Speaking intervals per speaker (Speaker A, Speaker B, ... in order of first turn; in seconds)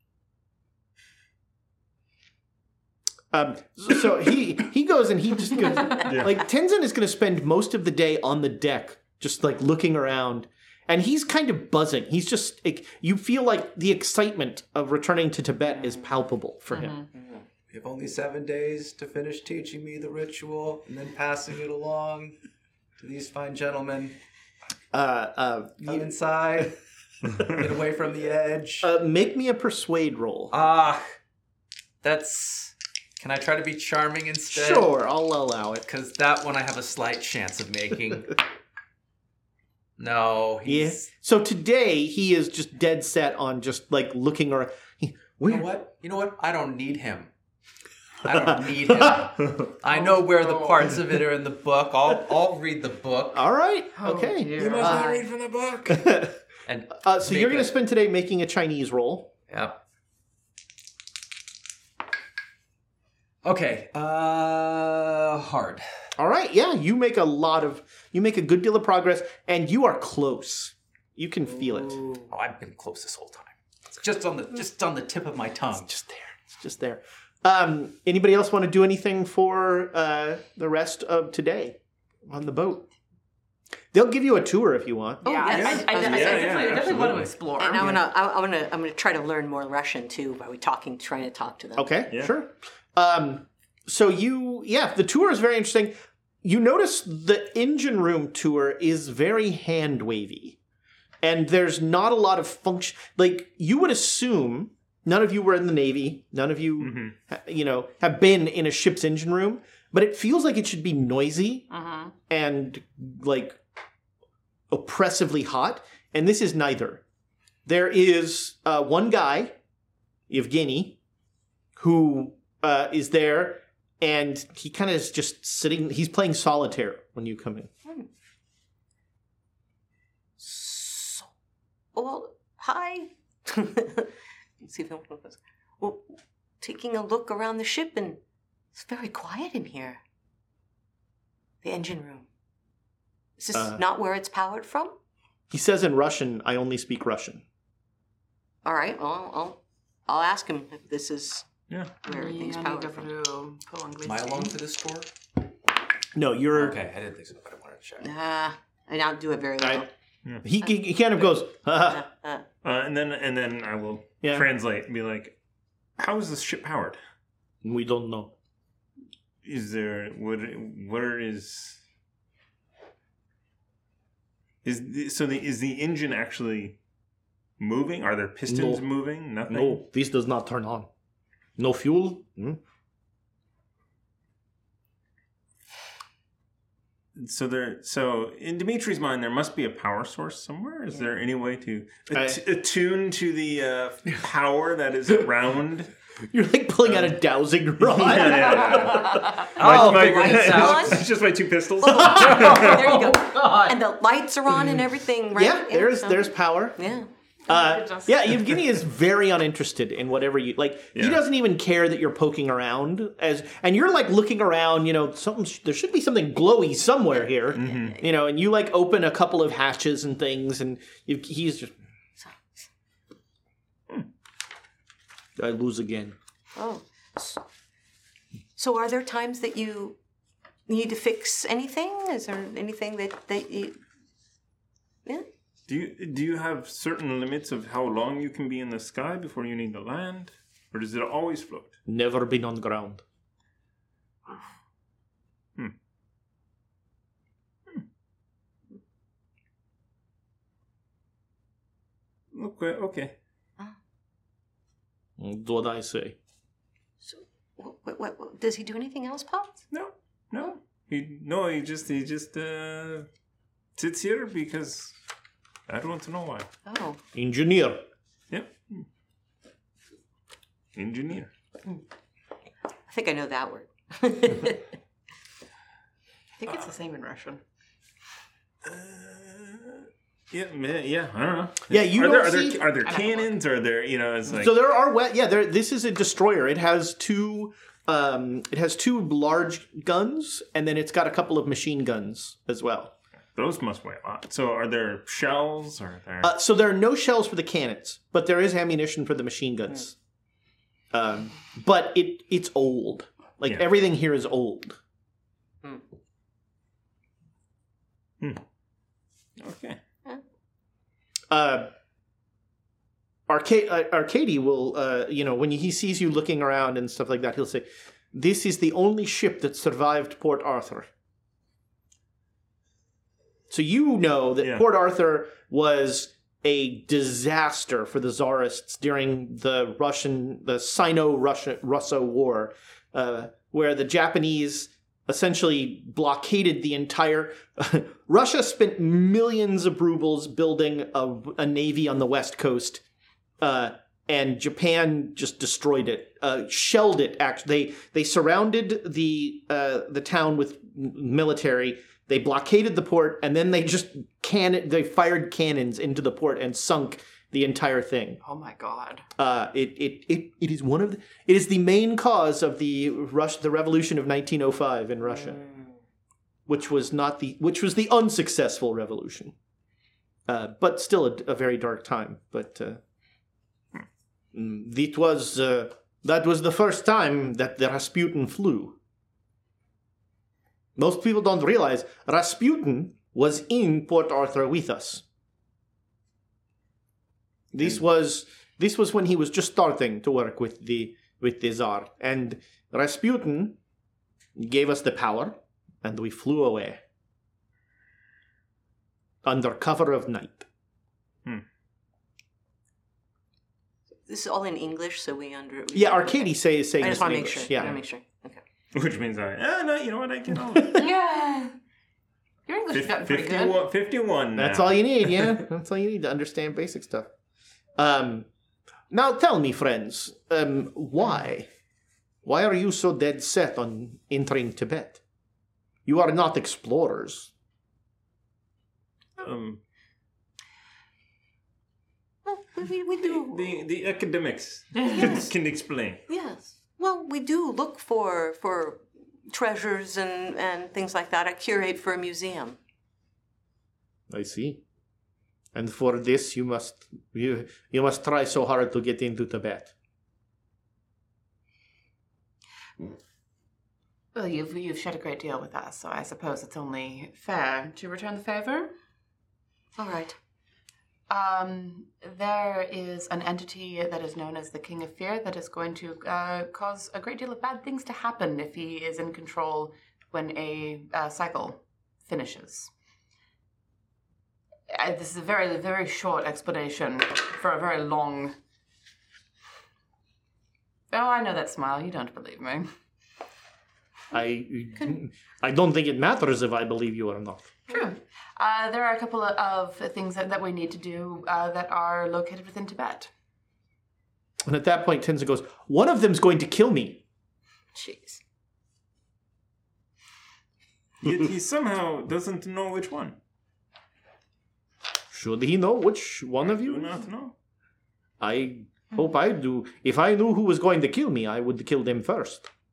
Speaker A: 3.3-17.0, 24.9-26.1, 28.8-30.5, 34.5-35.8, 40.6-45.7, 48.5-49.3, 53.3-55.2, 55.9-56.4, 57.0-59.3, 66.2-72.0, 75.7-82.9, 83.9-85.2, 91.8-100.6, 101.2-111.7, 112.3-113.6, 114.7-117.0, 117.6-119.5, 120.3-121.0, 121.8-127.7, 143.5-143.8, 145.5-147.4, 156.1-156.8, 159.6-159.8, 160.4-162.0, 164.2-164.5, 167.6-168.3, 178.5-178.8, 179.5-180.9, 181.6-182.6, 192.1-192.4, 196.3-200.5, 201.8-202.6, 205.3-206.8, 207.5-221.7, 225.4-226.2, 241.8-243.0, 255.2-256.1, 267.1-267.8, 281.7-282.7, 284.3-292.9, 296.2-299.9, 300.9-304.8, 311.3-311.7, 313.3-320.9, 323.5-342.8, 343.4-358.2, 359.2-365.4, 366.5-369.3, 370.3-372.8, 374.3-378.8, 380.8-385.0, 387.5-393.6, 394.4-396.8, 399.2-400.4, 405.7-407.8, 410.5-410.8, 414.3-417.1, 417.8-418.3, 418.9-421.5, 422.2-425.0, 425.9-427.3, 444.1-444.6, 445.5-449.7, 484.1-487.5, 494.4-497.0, 505.1-507.0, 508.2-512.5
Speaker B: 6.0-6.4, 54.6-56.0, 85.5-87.3, 106.8-107.1, 162.6-165.3, 166.0-167.0, 169.4-171.8, 174.6-176.8, 177.6-179.8, 187.1-195.9, 196.8-197.1, 197.8-202.9, 210.9-211.2, 217.5-217.9, 235.7-241.8, 252.3-253.1, 259.7-263.1, 263.8-264.9, 265.7-266.5, 268.3-268.9, 270.7-271.3, 278.6-284.5, 293.3-296.3, 309.4-309.8, 408.7-410.8, 412.7-415.4, 429.2-429.6, 433.0-436.0, 501.0-503.2, 506.4-507.3
Speaker C: 16.7-17.1, 53.9-55.3, 85.2-87.9, 111.7-112.1, 152.0-154.5, 207.5-208.3, 276.4-277.4, 282.8-283.3, 358.2-359.1, 410.7-411.5, 412.5-413.6, 454.1-458.7, 461.1-472.7, 474.7-478.4, 480.9-482.7, 487.7-493.1
Speaker D: 17.7-22.4, 23.0-24.1, 25.8-26.8, 27.4-28.9, 30.5-31.0, 32.0-34.9, 35.9-38.4, 40.0-41.1, 45.4-47.3, 48.2-53.5, 56.6-57.7, 59.5-59.8, 63.4-65.8, 72.0-75.9, 154.0-155.1, 156.5-158.1, 199.5-201.1, 202.1-203.8
Speaker E: 85.2-86.8, 87.6-91.9, 130.4-131.3, 131.9-138.2, 138.7-140.0, 141.6-142.3, 143.4-144.9, 148.6-151.5, 152.0-153.1, 158.0-159.9, 161.9-162.4, 199.7-201.1, 201.9-207.1, 226.6-227.4, 228.6-230.0, 230.7-233.8, 257.0-259.6, 266.6-267.0, 272.9-274.7, 404.1-408.4, 432.2-433.6, 434.8-435.3, 436.1-442.6, 459.8-460.1, 497.7-498.2